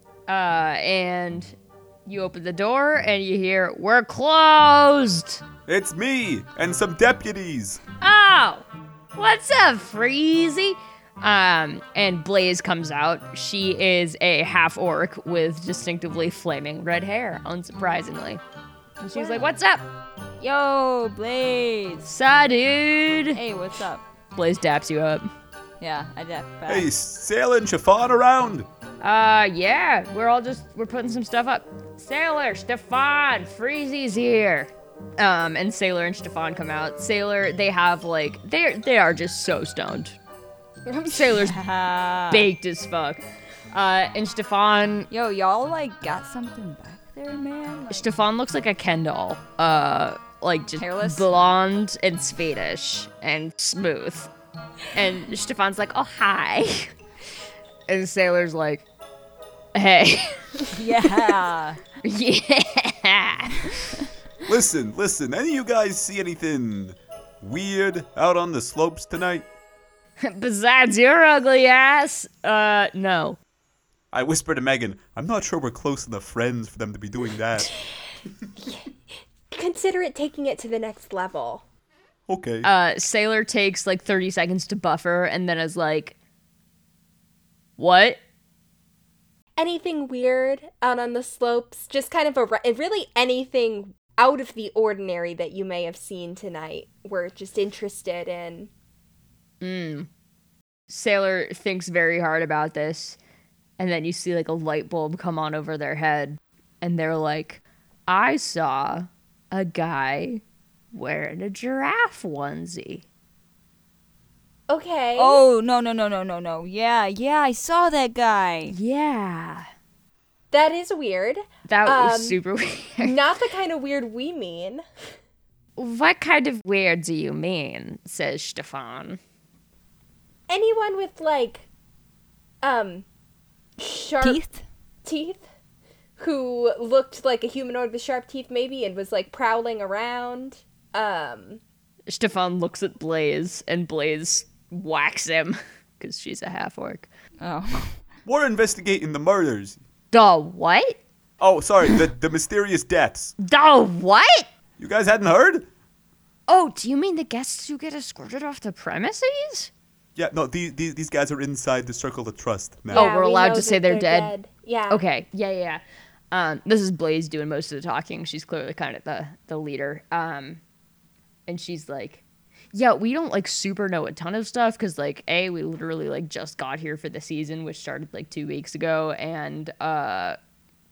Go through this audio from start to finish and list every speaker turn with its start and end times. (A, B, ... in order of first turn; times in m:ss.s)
0:00.3-0:05.4 A
0:05.7-0:07.8 B
0:08.0-0:18.4 A
0:19.0-0:19.8 A
0:20.4-0:22.1 C
0:22.0-0:23.4 A
0:23.3-0:24.0 C
0:24.3-0:25.3 A
0:25.8-0:26.9 C
0:26.7-0:28.7 B
0:29.0-0:40.2 A
0:41.1-0:41.6 A
0:41.2-0:42.5 C
0:42.3-0:45.1 A
0:45.1-0:48.1 C
0:47.9-0:54.3 A
0:50.8-0:51.2 C
0:54.9-0:56.9 A
0:57.9-0:58.8 A
0:59.7-1:00.6 A
1:00.7-1:01.8 C
1:02.0-1:03.8 A
1:04.4-1:09.4 B
1:10.2-1:13.4 A
1:14.1-1:17.7 B
1:19.5-1:21.6 D
1:22.3-1:22.7 B
1:22.6-1:26.2 A
1:27.8-1:28.2 A
1:29.6-1:38.7 D
1:39.6-1:40.1 A
1:40.9-1:43.2 A
1:43.8-1:50.4 A
1:50.9-1:53.0 A
1:54.7-1:55.4 D
1:55.1-1:58.7 C
1:58.7-1:59.6 A
2:00.5-2:02.4 D
2:01.6-2:03.2 A
2:03.0-2:04.8 D
2:05.8-2:09.2 A
2:10.5-2:11.6 D
2:12.6-2:13.0 D
2:13.8-2:14.4 D
2:14.2-2:14.6 C
2:15.0-2:15.4 D
2:16.2-2:21.6 D
2:22.1-2:27.1 A
2:27.4-2:28.0 C
2:28.2-2:29.8 B
2:30.1-2:31.0 A
2:31.4-2:33.3 B
2:33.4-2:34.5 A
2:34.8-2:35.7 B
2:36.5-2:39.7 A
2:40.2-2:43.1 B
2:42.9-2:45.0 D
2:42.9-2:44.3 A
2:44.9-2:50.6 A
2:51.5-2:52.2 A
2:52.7-3:00.4 A